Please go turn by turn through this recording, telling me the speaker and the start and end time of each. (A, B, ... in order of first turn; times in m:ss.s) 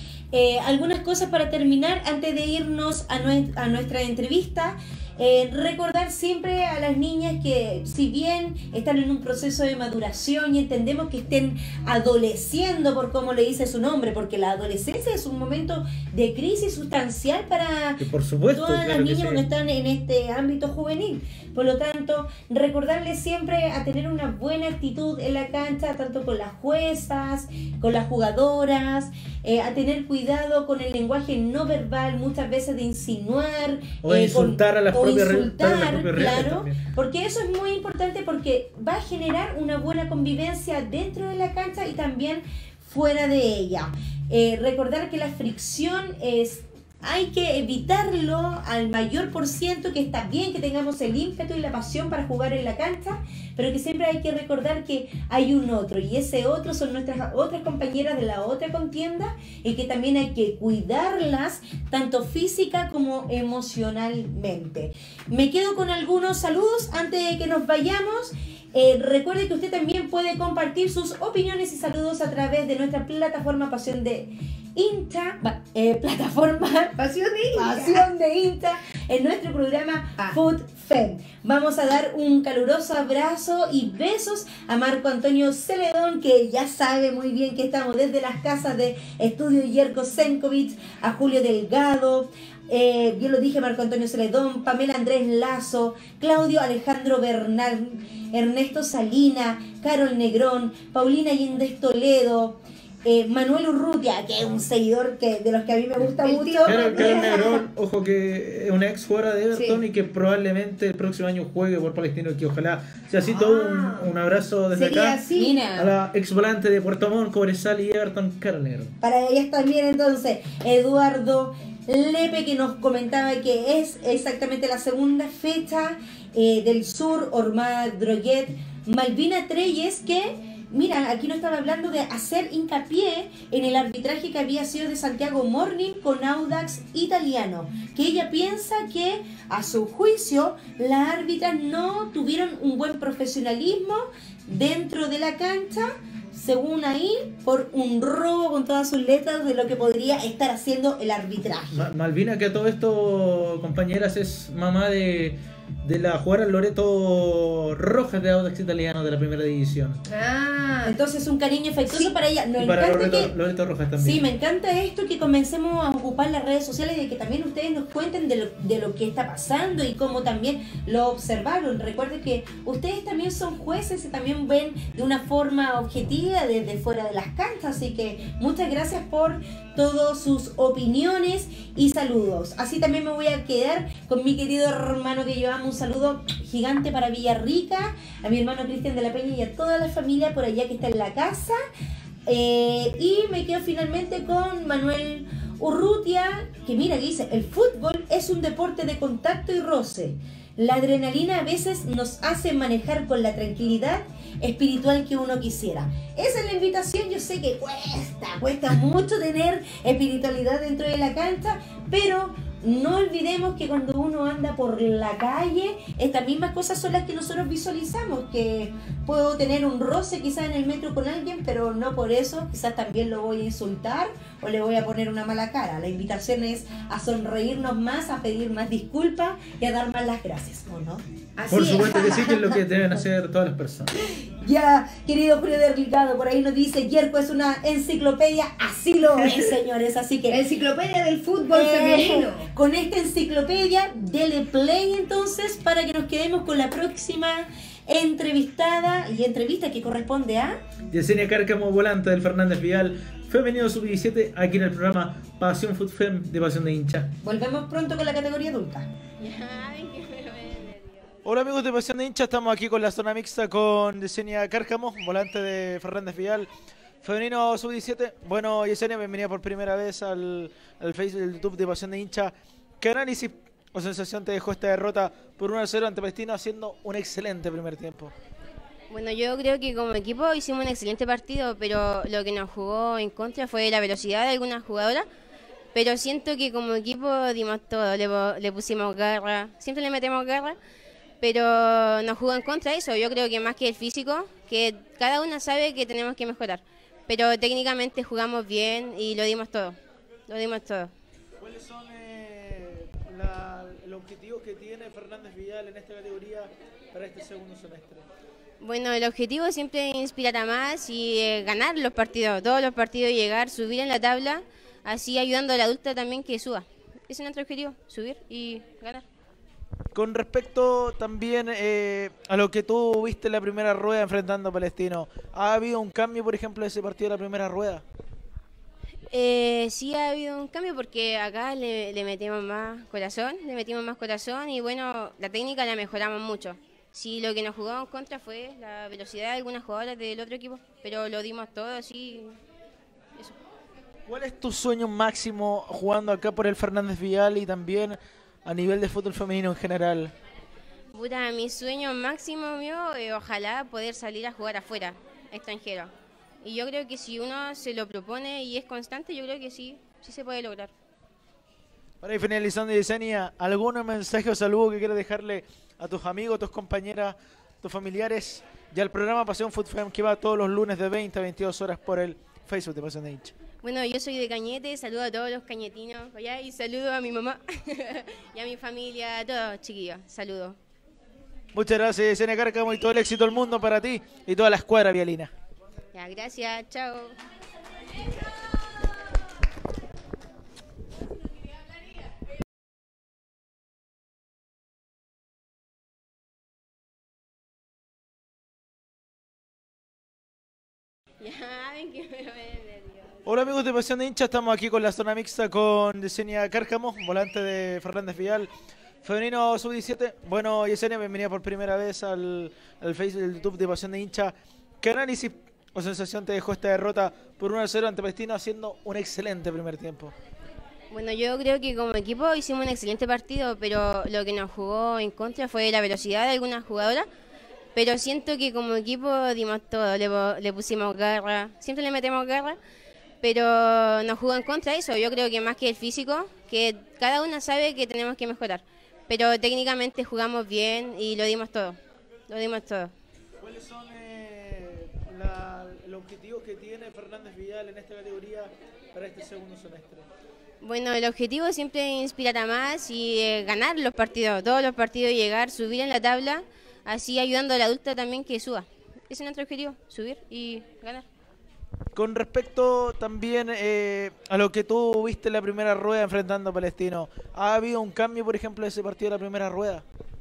0:00.3-1:17.0 A
0:18.0-0:19.4 B
0:34.0-0:36.8 B
1:17.0-1:18.0 C
1:17.5-1:47.2 A
1:46.2-1:47.6 C
1:46.6-1:55.2 B
1:49.5-1:49.8 C
1:53.3-1:54.1 C
1:54.7-1:55.6 C
1:55.3-1:55.9 A
1:55.7-1:59.0 B
1:59.0-2:31.9 A
2:31.7-2:40.0 B
2:40.1-2:40.9 C
2:40.8-2:43.3 A
2:42.6-2:44.3 B
2:44.0-3:11.6 A
3:12.2-3:51.0 A
3:51.4-3:52.6 C
3:51.5-3:53.9 B
3:54.0-4:00.4 A
4:00.3-4:02.5 C
4:01.5-4:10.6 A
4:10.9-4:17.1 B
4:17.2-4:18.9 A
4:19.2-4:21.1 D
4:21.2-4:26.5 B
4:27.0-4:38.1 B
4:38.9-4:45.0 D
4:45.7-4:50.6 D
4:51.2-4:59.8 D
5:00.3-5:00.9 D
5:01.4-5:08.0 B
5:08.6-5:19.0 D
5:19.9-5:27.8 B
5:29.1-5:42.4 D
5:44.1-5:50.1 B
5:50.9-6:00.7 D
6:02.0-6:13.3 B
6:13.6-6:20.6 D
6:21.5-6:25.3 B
6:25.9-6:27.2 D
6:41.2-6:43.1 D
6:43.2-6:48.5 B
6:49.0-7:00.1 B
7:00.9-7:07.1 D
7:07.7-7:12.6 D
7:13.2-7:22.9 D
7:23.4-7:30.0 B
7:30.6-7:41.0 D
7:41.9-7:49.8 B